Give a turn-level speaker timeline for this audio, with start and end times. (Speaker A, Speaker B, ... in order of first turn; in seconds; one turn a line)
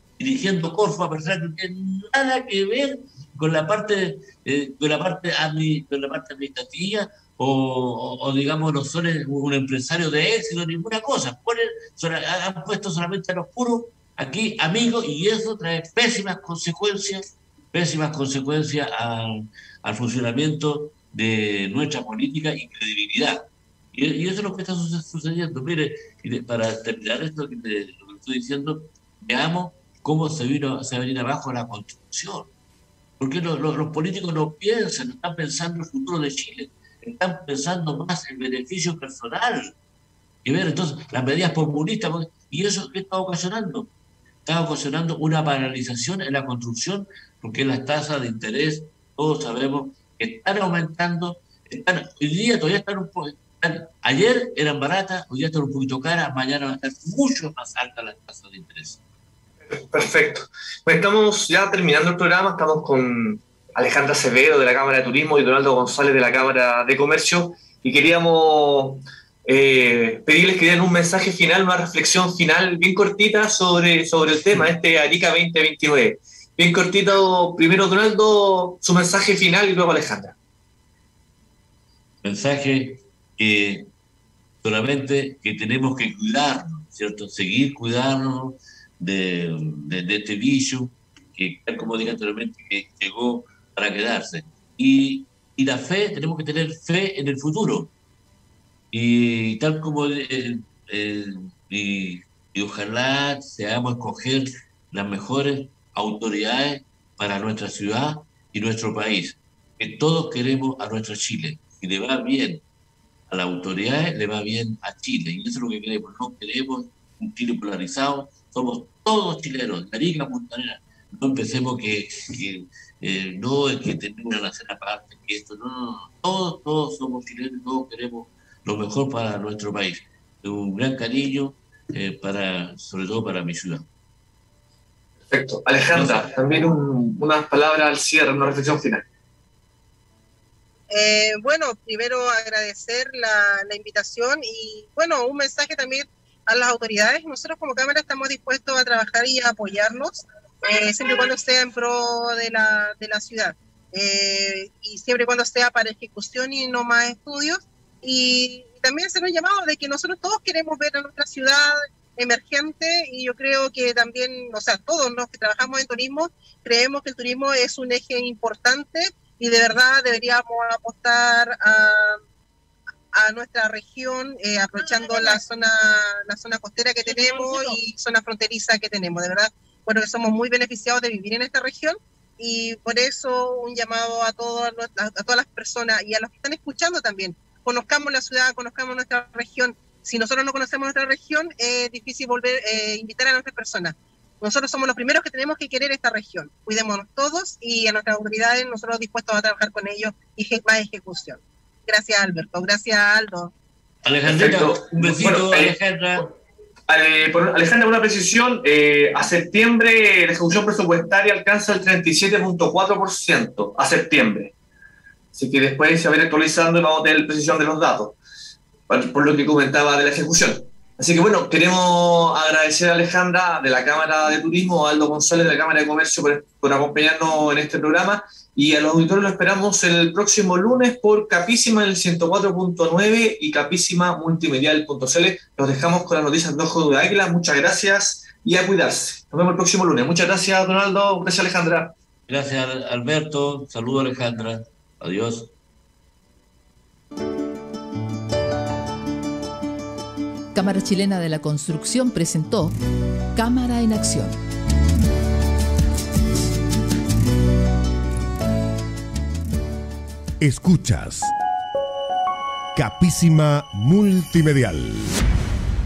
Speaker A: 0.2-32.5
Speaker A: 33.2-39.7
Speaker A: 40.4-43.9
Speaker A: 44.5-59.0
Speaker B: 59.7-80.4
Speaker A: 82.2-83.9
Speaker A: 84.6-97.9
Speaker A: 98.9-112.6
Speaker A: 113.3-133.9
Speaker B: 135.3-139.1
Speaker A: 135.9-136.3
Speaker C: 140.9-172.2
Speaker C: 173.1-203.5
Speaker A: 204.1-206.3
Speaker B: 204.3-206.2
Speaker B: 206.9-214.5
Speaker B: 215.3-218.2
Speaker B: 218.9-241.9
Speaker A: 242.3-245.5
Speaker D: 250.5-252.8
Speaker D: 253.3-254.4
Speaker E: 260.4-261.3
Speaker E: 262.8-265.2